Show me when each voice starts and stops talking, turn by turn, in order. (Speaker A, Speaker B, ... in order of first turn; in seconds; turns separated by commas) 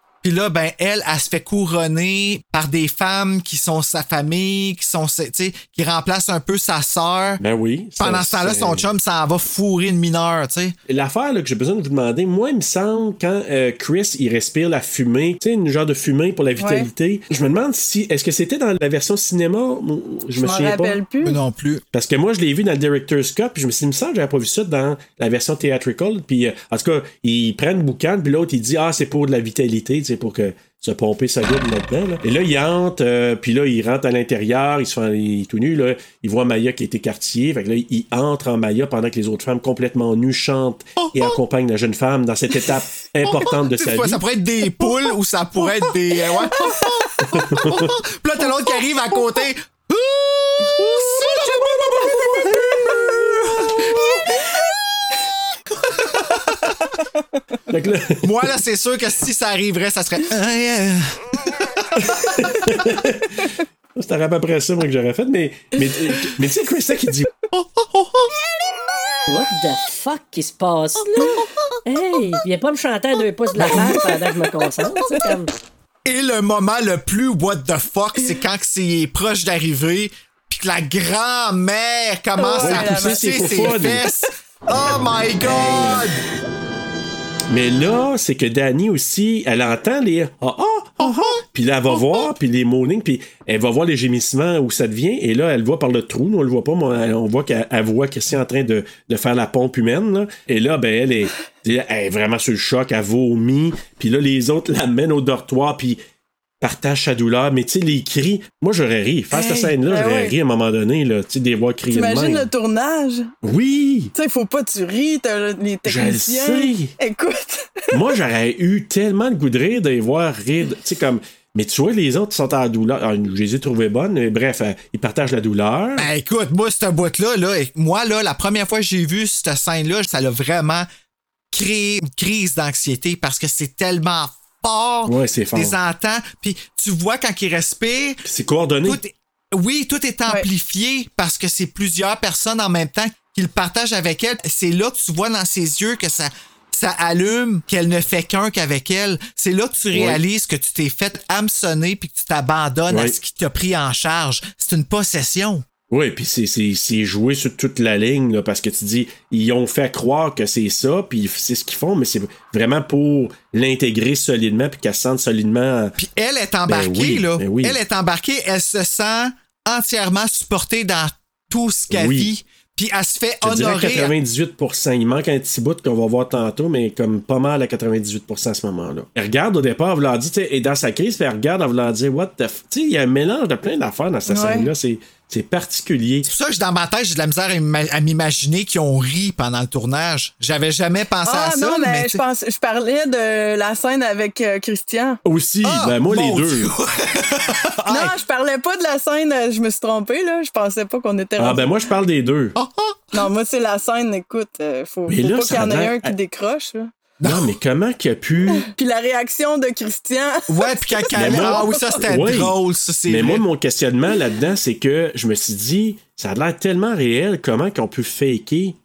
Speaker A: 0.2-7.4, Speaker B: 7.4-8.9, Speaker A: 8.0-10.8, Speaker B: 10.9-21.0, Speaker C: 16.6-16.9, Speaker C: 20.4-21.4, Speaker A: 21.2-21.8, Speaker B: 21.9-44.2, Speaker A: 41.0-41.4, Speaker A: 43.2-54.5, Speaker B: 47.3-47.9, Speaker A: 56.1-56.8, Speaker B: 57.7-58.5, Speaker A: 58.2-62.0, Speaker B: 62.0-67.3, Speaker A: 67.5-68.3, Speaker D: 69.3-75.5, Speaker A: 73.6-74.0, Speaker A: 76.0-86.2, Speaker C: 82.4-83.8, Speaker B: 82.6-84.0, Speaker B: 85.4-86.0, Speaker B: 87.5-106.0, Speaker A: 91.0-91.3, Speaker B: 106.6-112.5, Speaker C: 109.3-110.3, Speaker C: 111.9-113.3, Speaker B: 113.4-114.1, Speaker C: 114.1-118.0, Speaker B: 115.8-116.9, Speaker B: 117.9-126.1, Speaker A: 126.0-130.9, Speaker A: 131.5-138.2, Speaker B: 135.1-135.8, Speaker B: 138.2-139.0, Speaker A: 138.8-155.6, Speaker B: 149.9-150.2, Speaker B: 152.9-153.2, Speaker B: 155.9-165.9, Speaker A: 166.0-174.1, Speaker B: 166.7-167.8, Speaker B: 171.9-172.3, Speaker B: 173.4-186.3, Speaker C: 184.3-184.7, Speaker A: 186.2-192.2, Speaker C: 191.2-195.2, Speaker B: 195.2-196.7, Speaker A: 195.6-198.1, Speaker C: 197.9-201.7, Speaker B: 201.4-202.6, Speaker A: 202.6-203.2, Speaker C: 203.1-206.9, Speaker B: 205.1-206.1, Speaker A: 207.2-207.5, Speaker B: 207.2-208.7, Speaker C: 208.6-212.0, Speaker A: 210.5-213.4, Speaker B: 211.2-212.5, Speaker B: 213.1-218.7